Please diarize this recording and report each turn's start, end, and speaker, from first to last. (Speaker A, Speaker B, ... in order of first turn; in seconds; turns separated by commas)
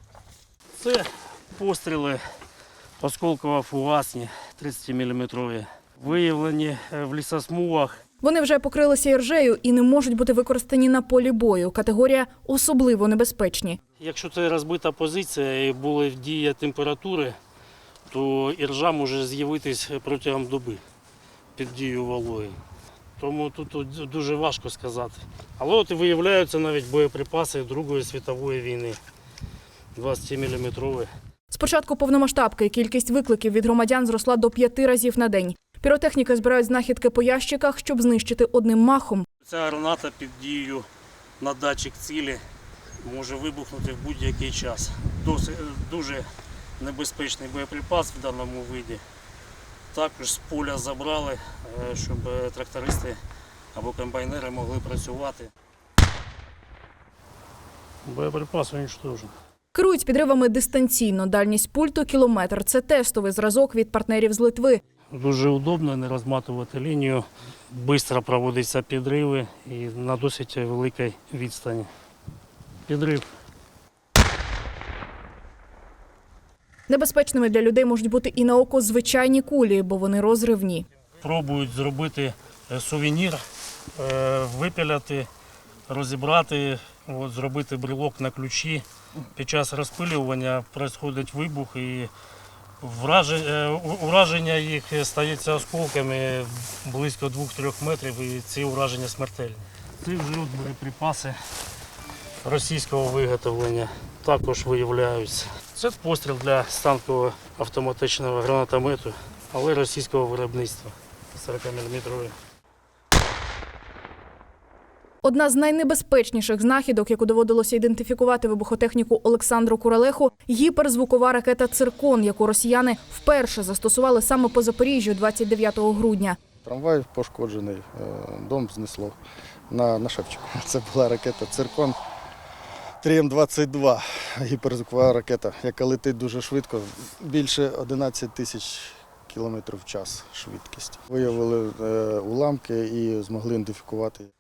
Speaker A: 0.8-2.2, Speaker A: 3.0-8.0, Speaker B: 8.2-13.8, Speaker A: 14.0-17.4, Speaker A: 18.1-20.8, Speaker A: 21.6-22.6, Speaker A: 23.2-29.0, Speaker A: 29.9-31.1, Speaker B: 31.5-39.2, Speaker A: 39.4-40.9, Speaker A: 41.4-42.4, Speaker A: 43.0-49.0, Speaker A: 49.9-53.2, Speaker A: 53.7-55.5, Speaker A: 58.0-59.3, Speaker B: 59.7-64.8, Speaker A: 65.1-71.9, Speaker A: 72.9-73.3, Speaker B: 76.9-80.8, Speaker A: 81.2-83.4, Speaker A: 83.9-85.3, Speaker A: 85.9-92.1, Speaker A: 92.8-101.4, Speaker A: 102.4-112.3, Speaker B: 115.2-126.4, Speaker C: 126.6-129.2, Speaker C: 129.7-132.0, Speaker C: 133.0-144.3